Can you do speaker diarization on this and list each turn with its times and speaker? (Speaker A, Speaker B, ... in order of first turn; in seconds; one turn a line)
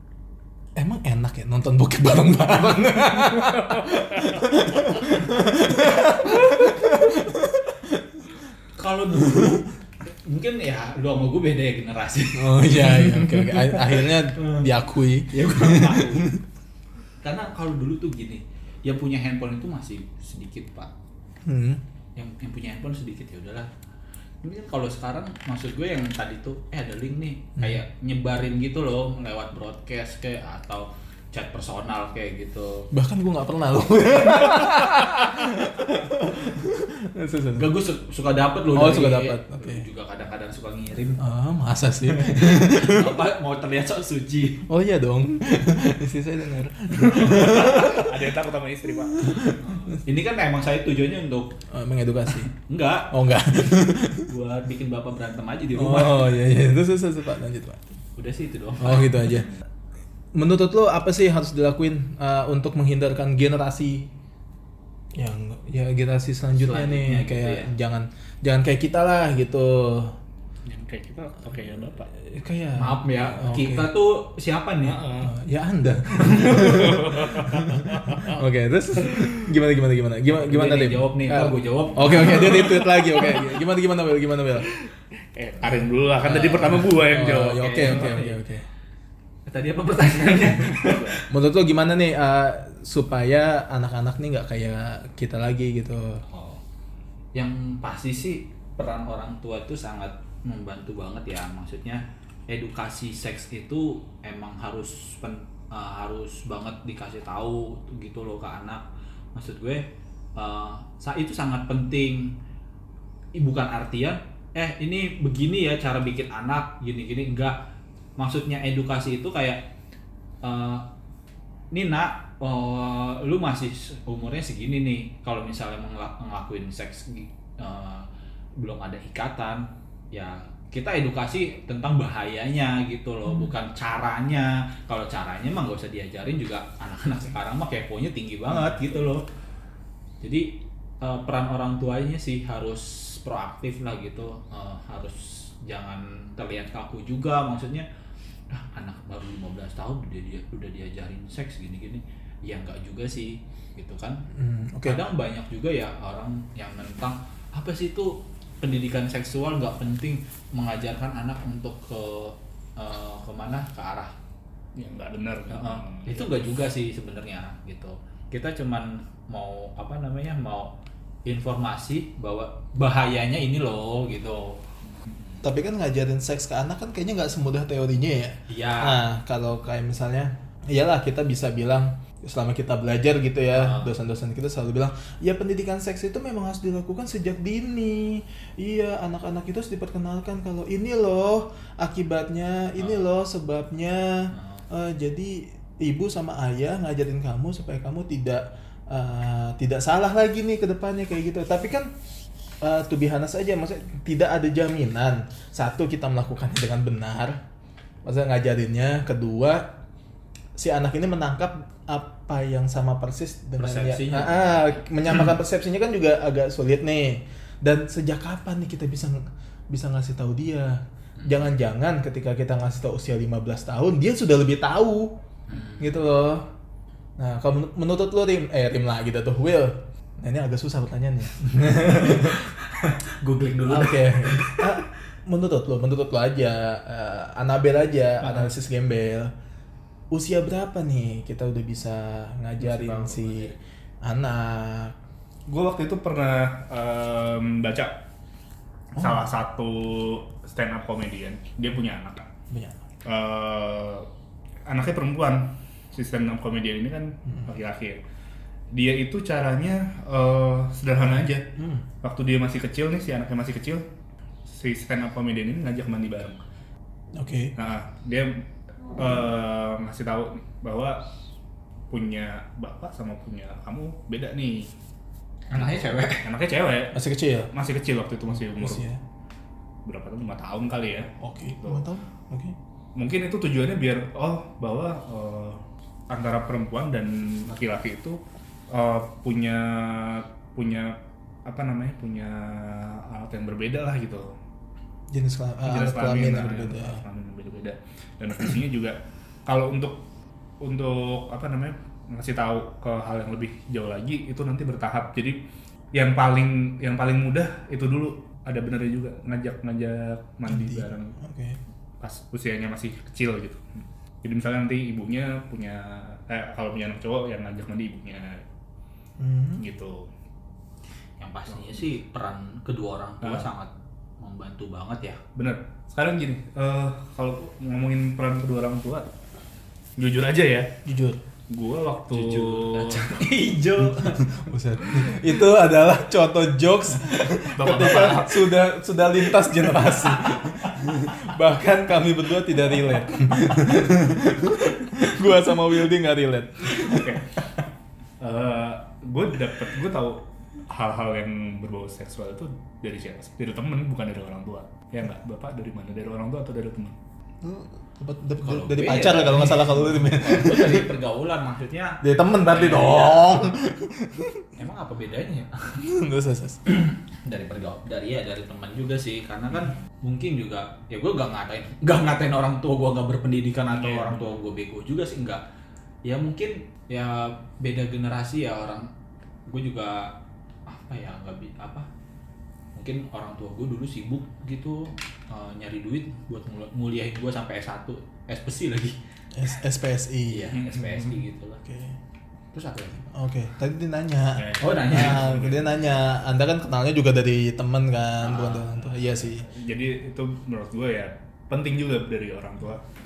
Speaker A: 0.8-8.3
Speaker B: 8.8-14.7
Speaker A: 12.3-16.4
Speaker B: 15.3-16.3
Speaker B: 17.2-20.9
Speaker A: 21.4-21.8
Speaker B: 22.2-23.7
Speaker B: 24.4-32.9
Speaker A: 32.9-37.7
Speaker B: 37.6-41.2
Speaker A: 38.7-39.9
Speaker A: 41.2-43.2
Speaker B: 42.1-44.6
Speaker A: 44.7-48.2
Speaker C: 47.0-49.3
Speaker A: 49.1-50.0
Speaker B: 49.6-51.6
Speaker A: 51.7-52.5
Speaker B: 52.5-53.1
Speaker A: 53.1-54.3
Speaker B: 54.3-56.3
Speaker A: 55.8-57.9
Speaker B: 58.2-59.1
Speaker A: 58.8-59.5
Speaker A: 60.4-64.1
Speaker A: 65.2-70.2
Speaker B: 66.6-67.7
Speaker C: 70.7-72.1
Speaker A: 72.2-73.9
Speaker B: 72.8-75.0
Speaker C: 74.9-75.3
Speaker A: 75.2-84.7
Speaker C: 76.2-78.3
Speaker C: 79.0-79.5
Speaker B: 80.4-82.7
Speaker C: 82.2-83.4
Speaker C: 84.8-88.1
Speaker A: 85.6-88.7
Speaker B: 86.2-86.9
Speaker B: 87.5-88.4
Speaker B: 89.5-91.1
Speaker C: 90.3-91.2
Speaker A: 91.3-96.2
Speaker B: 96.3-96.6
Speaker B: 97.3-109.8
Speaker B: 110.4-112.3
Speaker B: 113.4-117.6
Speaker B: 118.2-119.6
Speaker B: 120.4-120.9
Speaker B: 121.7-139.2
Speaker B: 140.2-147.9
Speaker B: 148.5-154.2
Speaker A: 154.3-155.0
Speaker B: 154.8-164.1
Speaker C: 164.8-166.3
Speaker B: 165.5-170.7
Speaker B: 171.2-174.6
Speaker A: 175.4-201.9
Speaker B: 178.5-179.0
Speaker B: 183.5-183.9
Speaker B: 194.3-194.7
Speaker A: 202.6-207.4
Speaker A: 208.0-209.8
Speaker A: 210.6-225.1
Speaker B: 213.6-214.9
Speaker B: 221.2-221.5
Speaker B: 225.5-225.9
Speaker A: 225.8-226.5
Speaker A: 227.2-232.4
Speaker B: 231.7-234.8
Speaker A: 233.7-239.3
Speaker B: 238.2-238.5
Speaker A: 240.1-245.0
Speaker B: 242.6-243.5
Speaker C: 245.5-248.0
Speaker C: 248.9-252.3
Speaker A: 252.5-252.8
Speaker C: 253.0-254.1
Speaker C: 254.7-258.0
Speaker C: 258.7-263.9
Speaker A: 261.6-261.9
Speaker C: 264.5-266.4
Speaker A: 267.2-267.5
Speaker C: 267.6-268.4
Speaker C: 269.0-271.1
Speaker C: 271.9-274.7
Speaker B: 275.5-276.2
Speaker C: 275.5-277.0
Speaker A: 276.9-277.5
Speaker C: 277.5-278.9
Speaker A: 278.4-279.0
Speaker C: 279.9-281.9
Speaker A: 281.2-282.6
Speaker C: 282.9-294.3
Speaker A: 295.1-297.0
Speaker C: 295.6-300.0
Speaker C: 300.6-305.4
Speaker C: 305.9-311.1
Speaker A: 310.5-311.6
Speaker C: 312.0-318.4
Speaker A: 319.2-319.6
Speaker C: 319.6-320.1
Speaker B: 321.2-325.2
Speaker C: 323.2-323.5
Speaker C: 325.4-329.1
Speaker C: 330.0-330.7
Speaker A: 330.9-331.2
Speaker C: 331.5-333.2
Speaker B: 332.1-334.3
Speaker A: 333.9-347.5
Speaker C: 337.6-338.4
Speaker C: 346.8-347.3
Speaker C: 348.2-357.0
Speaker A: 357.4-360.9
Speaker B: 358.4-363.4
Speaker A: 362.0-364.5
Speaker B: 364.6-365.8
Speaker A: 365.8-366.6
Speaker B: 366.7-375.4
Speaker C: 373.7-374.3
Speaker B: 376.0-378.9
Speaker B: 379.5-380.2
Speaker B: 380.7-381.9
Speaker B: 382.8-389.0
Speaker A: 389.3-390.6
Speaker B: 390.3-391.6
Speaker C: 390.5-391.1
Speaker A: 391.6-392.0
Speaker B: 392.5-393.1
Speaker A: 393.1-399.5
Speaker C: 394.4-396.0
Speaker B: 394.6-395.3
Speaker B: 398.2-398.9
Speaker C: 399.4-402.8